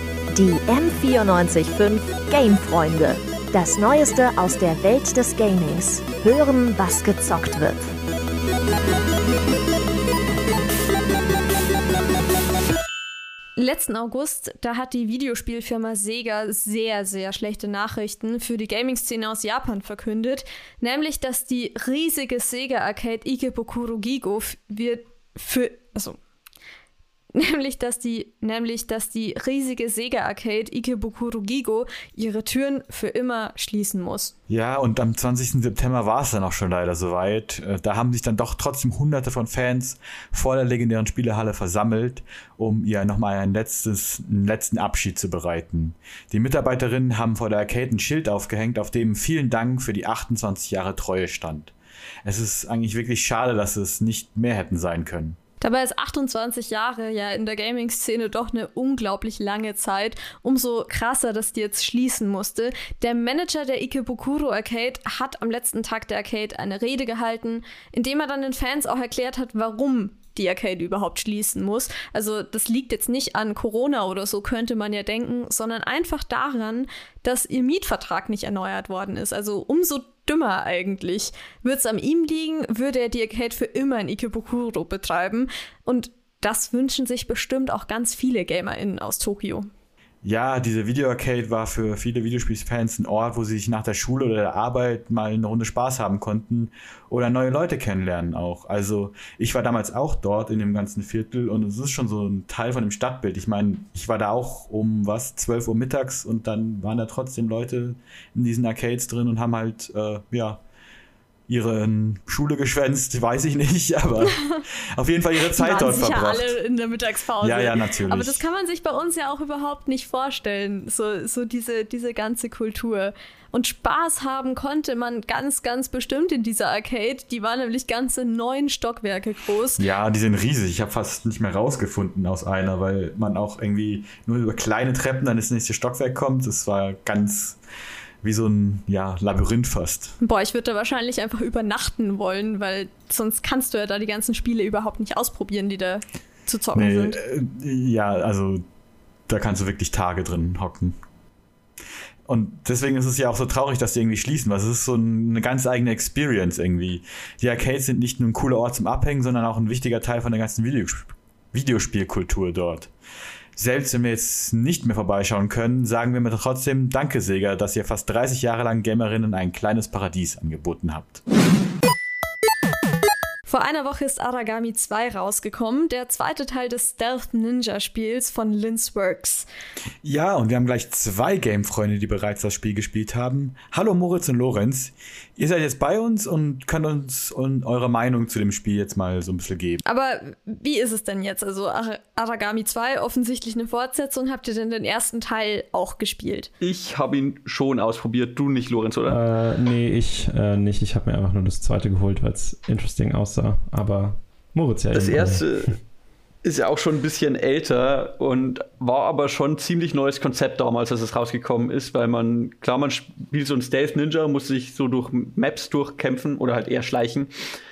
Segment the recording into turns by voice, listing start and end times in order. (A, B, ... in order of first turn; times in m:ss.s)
0:00.3-0:07.9 A
0:13.6-0:26.2 B
0:27.4-0:34.3 B
0:34.5-0:51.7 C
0:52.2-0:55.4 C
0:55.6-1:29.7 B
1:30.2-1:50.6 C
1:51.5-1:56.6 C
1:55.5-2:09.8 B
1:57.4-1:58.4 C
2:09.8-2:17.6 C
2:18.2-2:20.2 C
2:20.2-2:27.2 B
2:26.8-2:28.6 C
2:29.3-2:31.0 C
2:32.3-2:42.9 C
2:43.6-2:51.2 C
2:53.5-2:59.5 B
3:00.0-3:09.8 C
3:09.9-3:16.5 B
3:16.6-3:19.2 D
3:19.1-3:25.5 E
3:24.9-3:25.8 D
3:26.4-3:37.3 D